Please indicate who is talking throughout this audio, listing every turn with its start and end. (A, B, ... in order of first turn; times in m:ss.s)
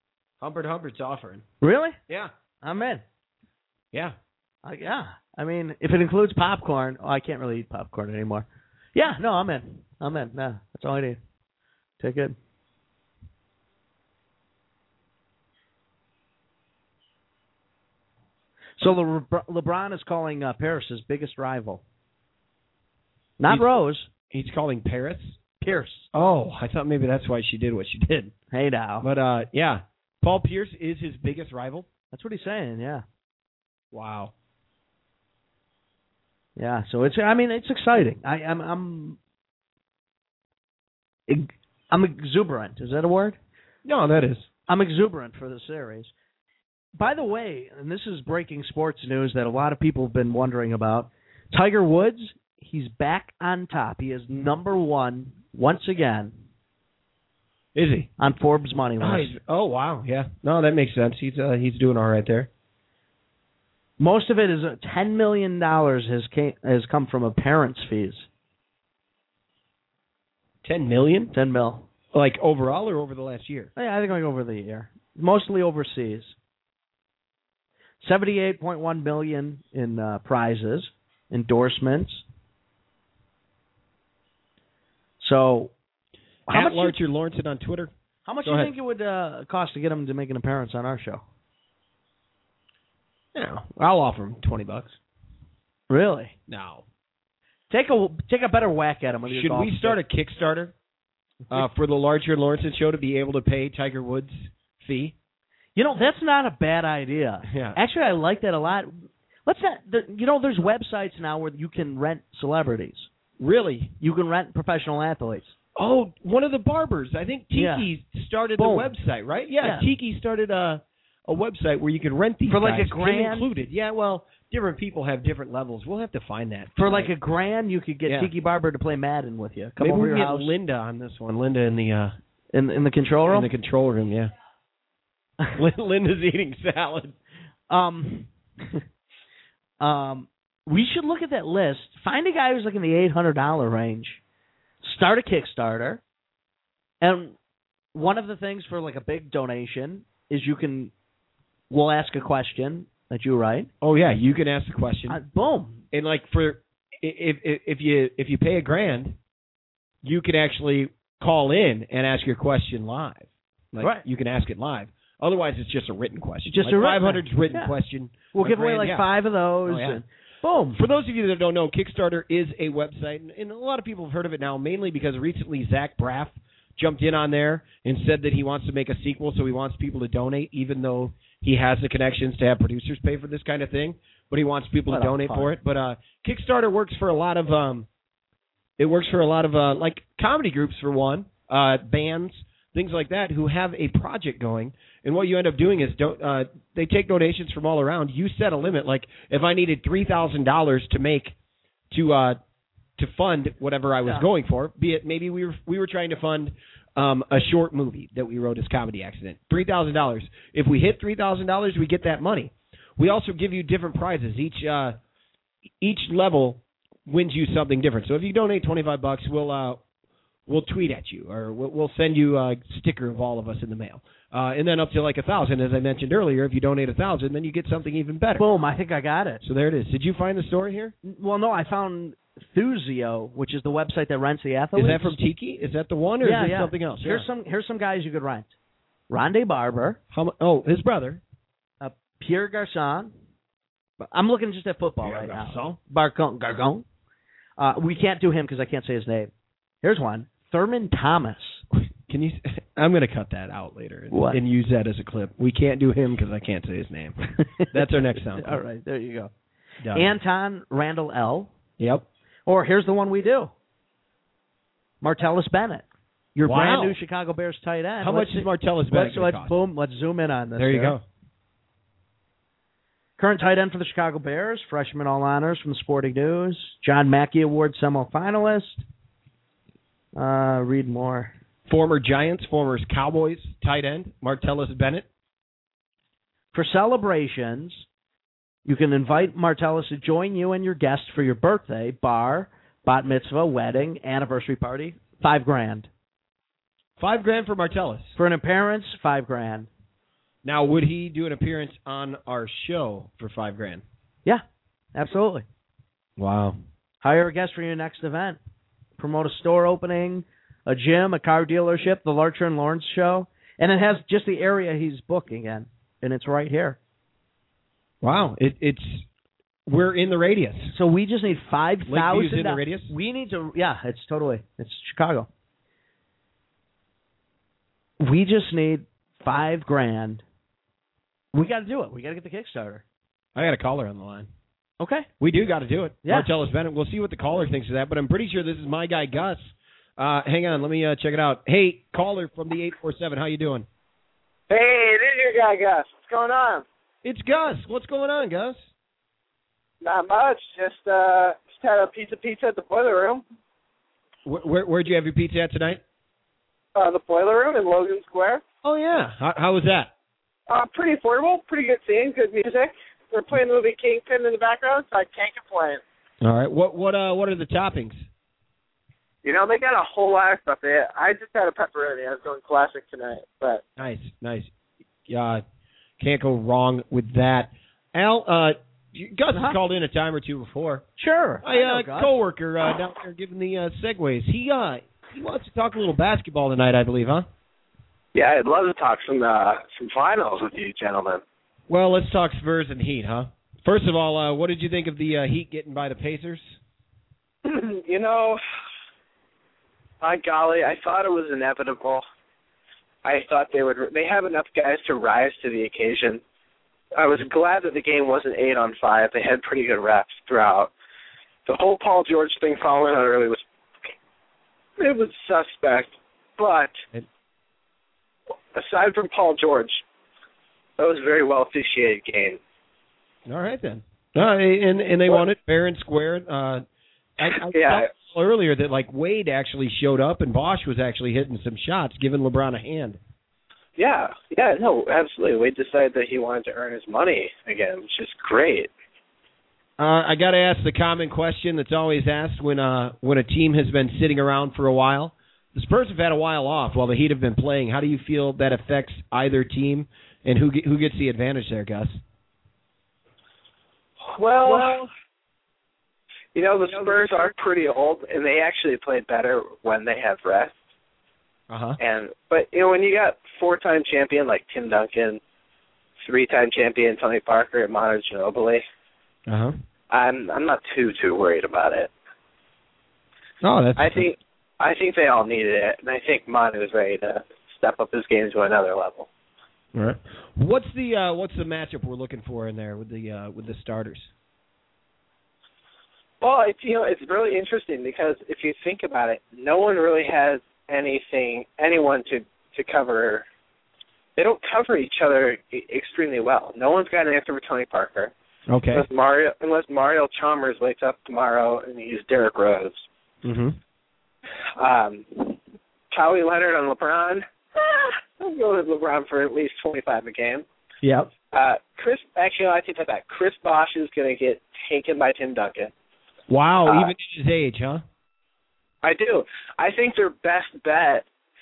0:00.4-0:01.4 A
0:01.6-0:02.0 B
0:02.6-0:03.0 B
0:04.6-0:11.2 B
0:12.0-0:12.3 B
0:18.8-0:21.8 B
0:23.4-0:24.1 B
0:23.5-0:23.8 A
0:24.3-0:25.4 A
0:25.6-0:26.1 B
0:26.1-0:28.3 A
0:28.5-0:29.1 B
0:29.0-0:31.9 A
0:32.1-0:33.0 B
0:33.9-0:34.3 A
0:36.6-0:39.2 B
0:41.3-0:43.4 B
0:43.8-0:44.5 A
0:44.7-0:46.1 B
0:47.0-0:56.3 B
0:57.7-0:58.1 A
0:58.2-0:59.3 B
0:59.0-1:02.5 A
1:04.0-1:08.2 B
1:10.6-1:11.3 A
1:11.3-1:11.9 B
1:12.1-1:13.7 A
1:13.8-1:16.3 B
1:18.0-1:22.2 B
1:25.2-1:25.7 B
1:26.5-1:27.9 A
1:26.5-1:27.0 B
1:28.2-1:31.2 B
1:28.4-1:28.7 A
1:33.3-1:35.0 A
1:35.9-1:36.4 B
1:36.5-1:36.8 A
1:37.7-1:40.0 B
1:39.3-1:40.7 A
1:41.5-1:45.1 A
1:45.8-1:53.1 B
1:47.4-1:47.8 A
1:53.4-1:53.9 A
1:54.0-1:55.5 B
1:55.7-2:07.1 A
1:57.5-1:57.9 B
1:58.6-1:58.9 B
1:59.6-1:59.9 B
2:02.5-2:03.5 B
2:06.8-2:10.5 B
2:09.8-2:12.2 A
2:12.5-2:13.5 B
2:13.2-2:14.3 A
2:15.5-2:17.2 A
2:17.7-2:18.8 B
2:19.8-2:24.2 B
2:24.8-2:26.0 B
2:27.0-2:27.3 B
2:27.9-2:30.9 B
2:31.7-2:33.7 B
2:33.8-2:35.2 A
2:35.1-2:35.8 B
2:35.9-2:39.2 A
2:40.0-2:49.1 A
2:46.4-2:47.7 B
2:48.3-2:50.8 B
2:49.6-2:50.0 A
2:50.7-3:07.9 A
3:04.9-3:05.5 B
3:08.8-3:21.3 A
3:21.9-3:22.4 A
3:23.0-3:35.0 A
3:35.8-3:39.8 A
3:40.5-3:48.4 A
3:48.4-3:49.4 B
3:49.4-3:50.9 A
3:51.0-3:55.2 B
3:54.8-3:57.2 A
3:56.2-3:58.5 B
3:59.1-4:00.0 B
4:00.1-4:01.2 A
4:01.8-4:03.1 B
4:04.0-4:06.8 B
4:05.0-4:05.8 A
4:07.6-4:09.3 B
4:09.8-4:11.6 B
4:11.7-4:18.6 A
4:14.1-4:14.4 B
4:18.2-4:19.3 B
4:19.8-4:20.1 A
4:19.9-4:21.5 B
4:21.8-4:22.1 A
4:22.4-4:23.5 B
4:25.0-4:25.8 B
4:26.4-4:27.0 A
4:26.4-4:31.0 B
4:28.0-4:29.6 A
4:30.6-4:31.0 A
4:33.2-4:38.8 B
4:40.1-4:41.3 B
4:41.7-4:45.0 A
4:46.5-4:47.8 B
4:48.6-4:55.9 B
4:57.0-4:58.2 A
4:58.2-4:59.7 B
5:00.4-5:03.8 A
5:04.9-5:05.4 B
5:06.2-5:06.6 A
5:07.0-5:08.4 B
5:09.0-5:16.8 B
5:18.0-5:19.0 A
5:19.6-5:20.7 A
5:20.7-5:25.3 B
5:21.9-5:22.9 A
5:28.0-5:30.2 B
5:31.3-5:32.8 B
5:33.3-5:34.3 A
5:34.8-5:35.1 B
5:35.2-5:43.7 A
5:44.5-5:46.6 C
5:47.0-5:48.6 A
5:49.8-5:53.2 C
5:54.2-5:55.8 A
5:56.7-5:58.4 C
5:58.6-5:59.9 A
6:00.5-6:05.8 C
6:06.2-6:08.0 A
6:09.2-6:13.6 C
6:13.8-6:14.5 A
6:15.1-6:15.4 A
6:16.0-6:20.8 A
6:21.0-6:22.1 B
6:21.4-6:27.3 A
6:28.1-6:31.2 C
6:31.7-6:36.6 A
6:37.4-6:38.4 C
6:40.0-6:42.0 C
6:43.0-6:46.2 C
6:47.0-6:50.7 C
6:51.4-6:53.4 C
6:54.8-6:56.7 C
6:58.5-6:59.8 C
7:00.8-7:02.4 C
7:03.3-7:06.6 A
7:07.2-7:13.0 A
7:07.3-7:07.9 C
7:13.8-7:18.7 C
7:19.8-7:32.0 A
7:34.1-7:34.9 C
7:34.4-7:34.8 A
7:36.3-7:40.5 C
7:36.7-7:37.3 A
7:41.5-7:41.8 A
7:41.8-7:45.2 C
7:46.0-7:48.6 C
7:49.3-7:49.6 A
7:49.9-7:51.9 C
7:53.4-7:54.1 A
7:53.8-7:59.1 C
7:59.7-8:04.1 A
8:06.2-8:13.2 C
8:14.2-8:18.1 C
8:18.5-8:18.8 A
8:18.7-8:22.8 C
8:23.2-8:23.6 A
8:24.6-8:25.4 C
8:25.9-8:30.4 C
8:30.8-8:31.1 A
8:31.3-8:35.7 C
8:36.3-8:37.8 A
8:36.6-8:36.9 C
8:38.8-8:41.0 C